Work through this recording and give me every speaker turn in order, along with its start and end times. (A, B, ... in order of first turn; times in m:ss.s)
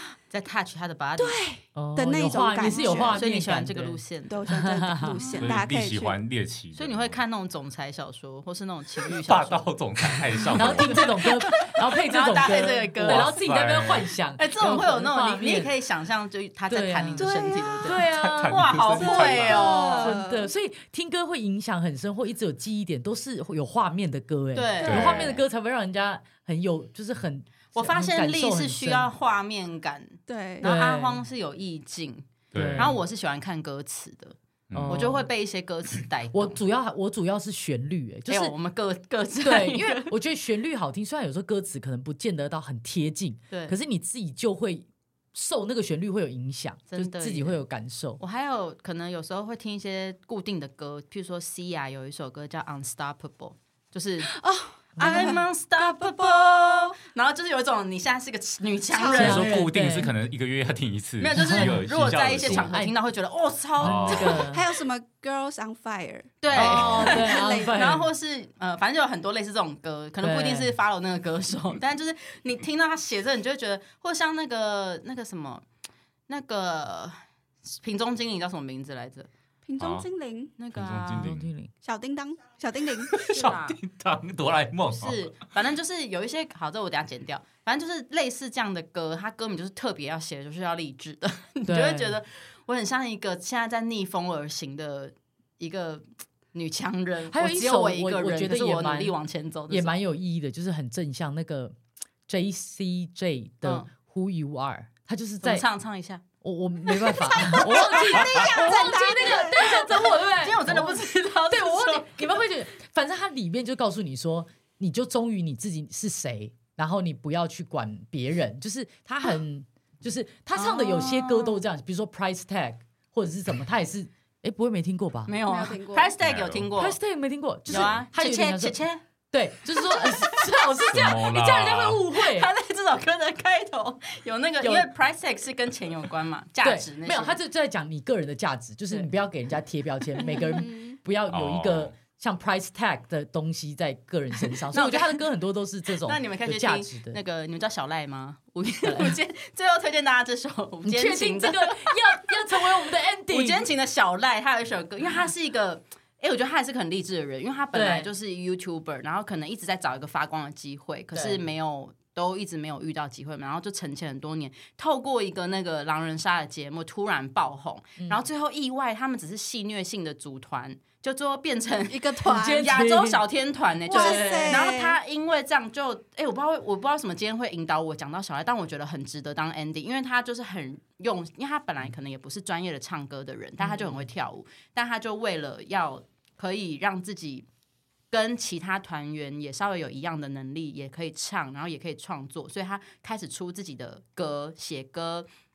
0:00.3-0:01.4 A
0:01.2-0:03.2 B
0:01.8-0:05.2 C
0:02.6-0:04.5 A
0:04.3-0:06.2 B
0:05.2-0:05.5 A
0:05.4-0:07.2 D
0:06.7-0:09.7 A
0:09.2-0:11.5 D
0:10.4-0:11.1 A
0:10.6-0:15.7 C
0:12.1-0:13.4 A
0:13.0-0:14.1 D
0:14.4-0:20.2 A
0:16.7-0:17.3 C
0:17.2-0:18.0 B
0:17.8-0:18.6 C
0:18.1-0:19.8 D
0:19.0-0:20.5 B
0:19.9-0:29.1 C
0:24.6-0:25.4 A
0:24.8-0:25.3 D
0:27.8-0:34.4 A
0:30.3-0:30.7 B
0:30.6-0:31.2 C
0:32.5-0:33.0 D
0:32.5-0:33.0 C
0:34.7-0:35.2 D
0:34.7-0:35.2 C
0:34.9-0:36.6 A
0:36.3-0:38.5 C
0:38.3-0:40.1 A
0:39.4-0:48.2 C
0:43.5-0:43.8 A
0:46.9-0:47.6 A
0:48.2-0:54.4 A
0:54.3-0:57.0 B
0:55.0-0:55.4 C
0:55.0-0:59.6 A
0:58.9-0:59.4 B
0:59.1-1:02.8 D
0:59.1-1:00.1 C
1:01.2-1:04.5 A
1:01.4-1:01.8 C
1:02.4-1:02.9 C
1:03.8-1:04.4 D
1:03.8-1:04.6 C
1:04.2-1:08.0 B
1:06.4-1:15.6 A
1:06.5-1:07.1 D
1:06.5-1:08.1 C
1:10.2-1:10.7 C
1:16.3-1:17.2 A
1:17.7-1:19.3 A
1:19.6-1:20.5 B
1:19.8-1:20.1 D
1:20.6-1:21.3 A
1:20.7-1:21.5 D
1:21.2-1:21.7 C
1:21.8-1:23.5 B
1:23.1-1:25.2 D
1:23.3-1:23.8 A
1:25.0-1:40.0 A
1:31.7-1:32.2 C
1:37.3-1:39.2 C
1:39.7-1:41.8 C
1:42.3-1:45.7 C
1:45.4-1:46.2 A
1:46.4-2:05.3 C
1:47.1-1:48.4 A
1:47.5-1:49.8 B
1:49.4-1:52.1 A
2:00.6-2:01.6 A
2:05.3-2:07.0 A
2:05.5-2:06.1 B
2:06.2-2:06.7 D
2:06.8-2:08.8 C
2:07.7-2:08.0 D
2:07.7-2:09.0 A
2:09.3-2:12.5 C
2:09.8-2:10.4 A
2:10.9-2:12.0 D
2:12.2-2:17.4 A
2:14.6-2:14.9 C
2:16.6-2:27.2 C
2:20.2-2:20.7 A
2:20.3-2:21.0 B
2:21.3-2:21.9 D
2:24.7-2:25.2 A
2:26.0-2:32.6 A
2:28.8-2:29.2 C
2:30.8-2:33.7 C
2:33.3-3:07.5 A
2:37.7-2:38.1 C
2:41.1-2:41.4 C
2:51.9-2:52.7 B
2:52.3-2:53.2 C
2:53.9-2:55.0 B
2:53.9-2:54.6 C
3:03.6-3:03.9 C
3:08.1-3:15.3 A